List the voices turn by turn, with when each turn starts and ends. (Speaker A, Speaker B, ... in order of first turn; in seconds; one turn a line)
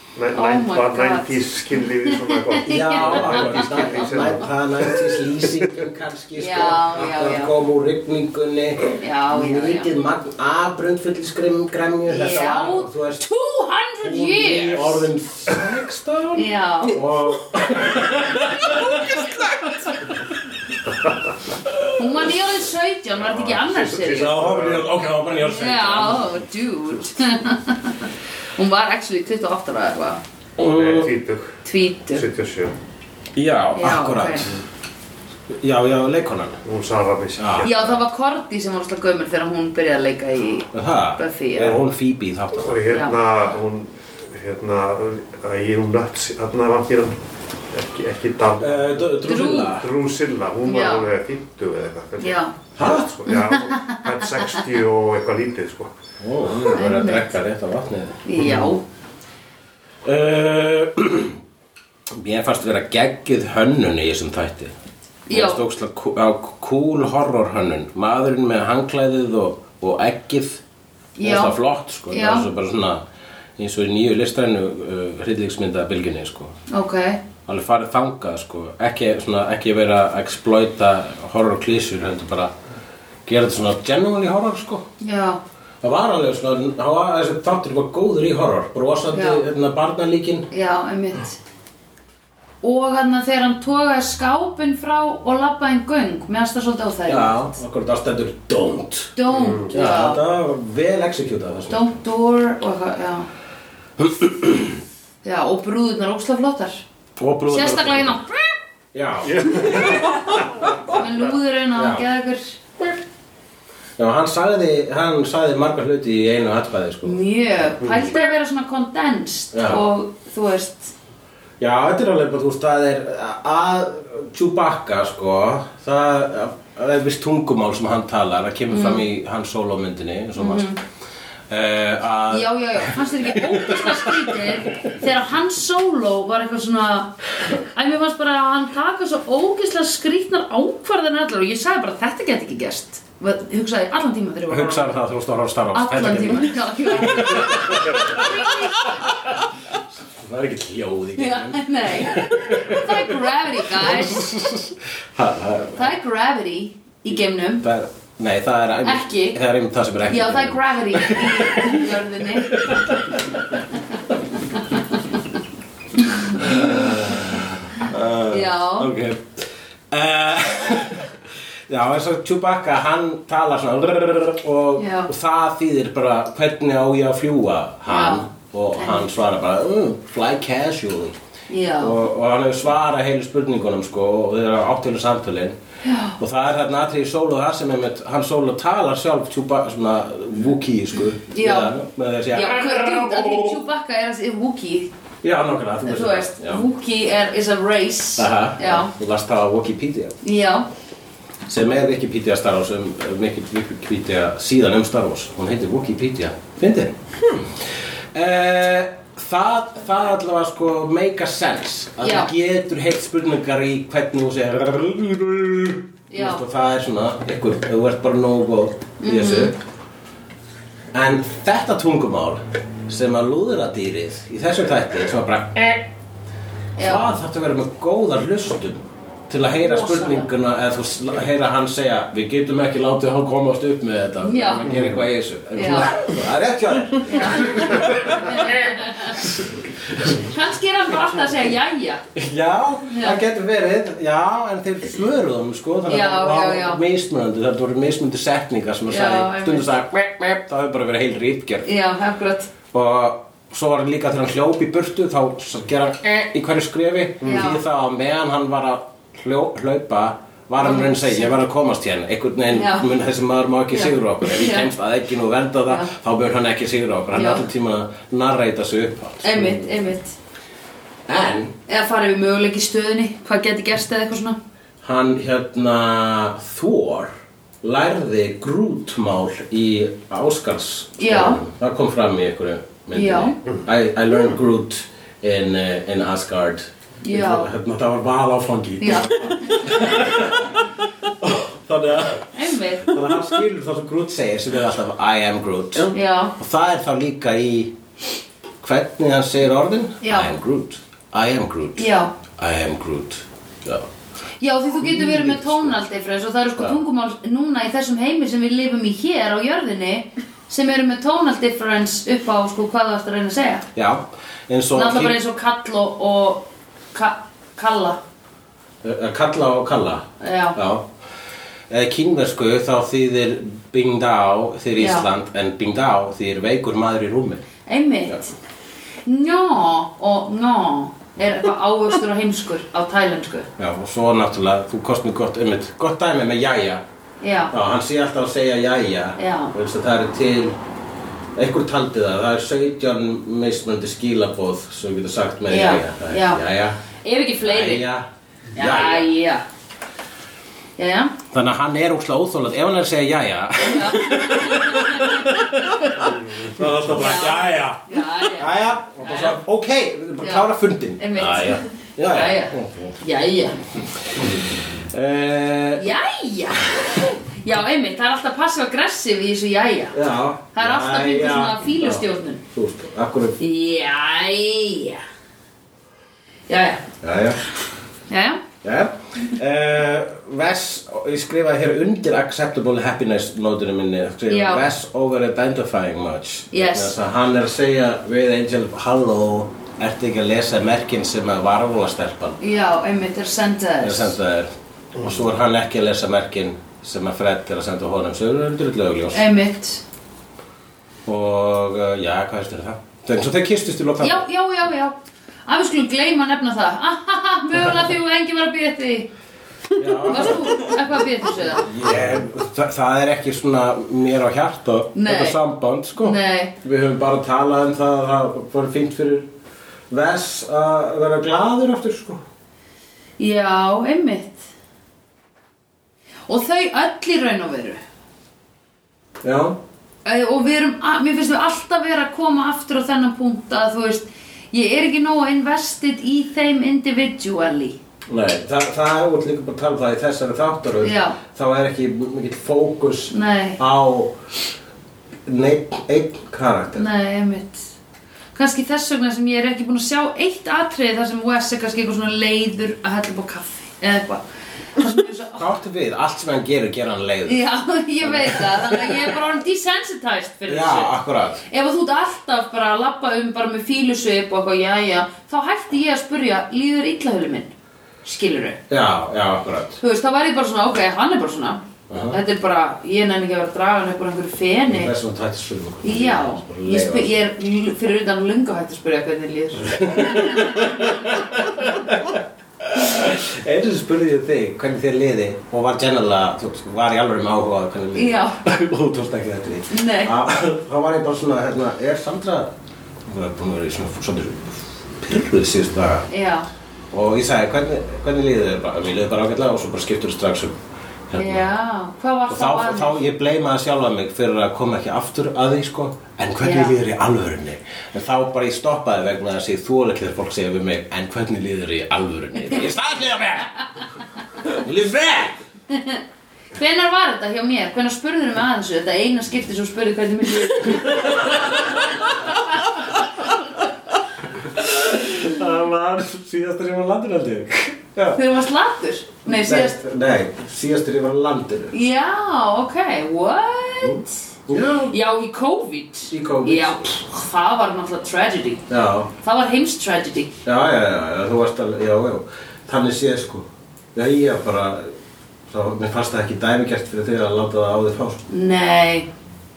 Speaker A: 0.1-5.2
Speaker B: 0.3-1.4
Speaker B: 2.5-4.1
Speaker C: 2.6-13.2
Speaker B: 6.3-7.5
Speaker B: 9.0-9.9
Speaker B: 12.1-15.1
Speaker C: 14.0-20.2
Speaker B: 16.3-17.0
Speaker C: 21.6-22.0
Speaker B: 21.9-24.4
Speaker C: 23.3-26.4
Speaker A: 23.7-24.8
Speaker B: 25.4-30.2
Speaker C: 30.6-31.1
Speaker A: 30.6-31.5
Speaker B: 31.6-32.2
Speaker A: 32.1-32.7
Speaker C: 33.4-34.6
Speaker B: 33.8-34.5
Speaker C: 35.5-36.6
Speaker A: 36.6-38.0
Speaker C: 37.4-37.7
Speaker B: 37.6-41.8
Speaker C: 40.7-42.8
Speaker A: 42.6-47.2
Speaker B: 42.9-43.2
Speaker A: 47.7-49.1
Speaker C: 48.6-49.9
Speaker B: 49.2-49.7
Speaker A: 49.7-55.9
Speaker B: 50.6-51.1
Speaker B: 52.2-52.5
Speaker C: 52.8-53.1
Speaker B: 53.3-54.0
Speaker C: 56.2-58.7
Speaker B: 56.7-57.3
Speaker B: 58.2-58.8
Speaker C: 60.0-61.4
Speaker C: 62.1-64.7
Speaker B: 65.3-65.6
Speaker C: 65.3-70.6
Speaker B: 71.2-71.5
Speaker C: 71.2-73.0
Speaker B: 72.1-72.5
Speaker C: 73.6-76.5
Speaker B: 76.7-77.2
Speaker C: 77.5-82.5
Speaker C: 83.2-84.9
Speaker B: 85.0-85.4
Speaker C: 85.8-90.5
Speaker B: 89.1-89.4
Speaker B: 90.5-91.4
Speaker B: 92.6-97.5
Speaker C: 97.1-99.2
Speaker B: 99.2-100.2
Speaker A: 99.3-99.7
Speaker C: 99.7-102.0
Speaker B: 101.7-103.3
Speaker C: 104.0-104.8
Speaker B: 105.2-106.8
Speaker C: 107.2-108.2
Speaker B: 107.5-108.6
Speaker C: 108.9-110.0
Speaker A: 109.3-110.0
Speaker B: 110.9-112.6
Speaker C: 111.7-112.0
Speaker C: 114.0-117.7
Speaker B: 117.0-120.9
Speaker C: 119.5-119.8
Speaker C: 121.6-130.7
Speaker B: 128.7-129.0
Speaker B: 130.4-130.8
Speaker C: 131.5-134.4
Speaker B: 132.3-144.9
Speaker C: 144.5-149.5
Speaker B: 145.7-149.0
Speaker C: 150.0-155.9
Speaker B: 151.2-154.3
Speaker B: 155.8-157.6
Speaker C: 157.6-163.4
Speaker B: 158.8-159.4
Speaker B: 160.1-162.6
Speaker B: 166.1-166.8
Speaker C: 166.3-171.2
Speaker B: 168.3-168.9
Speaker C: 171.7-181.2
Speaker B: 174.8-175.1
Speaker B: 177.9-179.1
Speaker B: 181.5-182.0
Speaker C: 181.8-185.6
Speaker B: 185.8-186.2
Speaker C: 186.2-193.6
Speaker B: 191.3-191.8
Speaker B: 192.3-194.9
Speaker C: 195.2-196.6
Speaker B: 195.8-198.9
Speaker C: 198.2-200.2
Speaker B: 200.2-200.7
Speaker C: 201.4-219.6
Speaker B: 212.0-212.3
Speaker B: 216.1-216.4
Speaker B: 219.0-219.5
Speaker C: 220.9-225.8
Speaker B: 226.8-227.1
Speaker C: 226.8-240.2
Speaker B: 229.6-230.3
Speaker B: 234.2-234.9
Speaker B: 235.5-235.9
Speaker B: 237.0-239.2
Speaker B: 240.1-242.0
Speaker C: 242.1-251.7
Speaker B: 242.9-243.2
Speaker B: 245.9-246.8
Speaker B: 248.9-249.7
Speaker B: 251.6-252.5
Speaker C: 252.7-269.7
Speaker B: 257.2-257.6
Speaker B: 260.6-261.3
Speaker B: 262.5-262.9
Speaker B: 263.7-264.7
Speaker B: 267.1-267.4
Speaker B: 269.2-270.1
Speaker C: 271.1-271.5
Speaker B: 271.7-274.4
Speaker C: 274.8-290.6
Speaker B: 281.0-281.4
Speaker B: 282.9-283.3
Speaker B: 287.0-287.5
Speaker B: 288.8-289.7
Speaker C: 291.2-297.7
Speaker B: 292.3-292.9
Speaker B: 295.9-296.3
Speaker C: 298.6-303.9
Speaker B: 300.0-300.3
Speaker B: 301.8-302.1
Speaker B: 304.4-313.6
Speaker C: 304.8-305.8
Speaker C: 313.7-315.2
Speaker B: 314.7-318.0
Speaker C: 318.8-320.9
Speaker B: 320.2-320.6
Speaker C: 321.7-327.4
Speaker B: 324.8-325.1
Speaker B: 327.7-328.3
Speaker B: 329.1-333.5
Speaker C: 333.6-336.8
Speaker B: 337.2-337.5
Speaker C: 337.5-340.6
Speaker B: 339.2-339.5
Speaker C: 341.4-346.8
Speaker B: 345.5-346.4
Speaker B: 347.0-347.8
Speaker C: 347.4-348.1
Speaker B: 348.6-349.4
Speaker C: 348.6-349.1
Speaker B: 350.8-351.1
Speaker C: 351.3-363.0
Speaker B: 353.6-355.4
Speaker B: 356.9-359.4
Speaker B: 360.2-363.6
Speaker C: 364.1-365.9
Speaker B: 365.8-370.0
Speaker C: 369.9-373.4
Speaker B: 370.5-372.4
Speaker B: 373.4-375.0
Speaker B: 376.5-376.8
Speaker C: 377.0-377.4
Speaker B: 378.1-378.4
Speaker C: 378.6-392.4
Speaker B: 384.3-384.7
Speaker B: 386.5-386.9
Speaker B: 392.4-394.2
Speaker C: 393.8-399.2
Speaker B: 399.1-399.8
Speaker C: 401.1-404.2
Speaker B: 404.0-404.9
Speaker B: 405.4-409.1
Speaker C: 409.8-410.7
Speaker B: 410.0-411.7
Speaker C: 411.4-419.3
Speaker B: 414.9-415.4
Speaker B: 416.0-416.5
Speaker C: 419.9-422.2
Speaker B: 423.2-424.4
Speaker B: 426.3-427.8
Speaker C: 429.2-429.6
Speaker B: 430.0-437.8
Speaker C: 438.1-444.1
Speaker B: 440.8-441.2
Speaker B: 443.1-443.6
Speaker C: 445.2-446.9
Speaker B: 446.8-447.7
Speaker B: 448.3-454.2
Speaker B: 454.8-455.4
Speaker C: 455.4-457.4
Speaker B: 457.2-460.9
Speaker C: 458.0-459.1
Speaker C: 460.5-461.4
Speaker B: 461.4-468.6
Speaker C: 468.7-469.8
Speaker B: 469.8-474.9
Speaker C: 471.9-472.2
Speaker C: 474.7-477.1
Speaker B: 475.8-480.4
Speaker C: 479.6-492.5
Speaker B: 487.9-488.4
Speaker B: 489.7-490.1
Speaker C: 493.1-496.1
Speaker B: 496.1-496.5
Speaker C: 496.9-500.6
Speaker C: 501.1-501.5
Speaker B: 501.1-503.0
Speaker C: 502.3-513.5
Speaker B: 506.4-506.8
Speaker C: 514.4-515.4
Speaker B: 515.7-516.0
Speaker B: 516.5-521.2
Speaker C: 520.7-522.1
Speaker C: 524.4-528.2
Speaker B: 528.1-529.8
Speaker C: 529.2-531.8
Speaker B: 531.7-534.2
Speaker C: 533.8-534.9
Speaker B: 534.9-538.6
Speaker C: 536.1-536.9
Speaker C: 538.7-539.1
Speaker B: 539.2-540.4
Speaker C: 540.4-544.9
Speaker C: 545.5-548.2
Speaker B: 548.3-549.1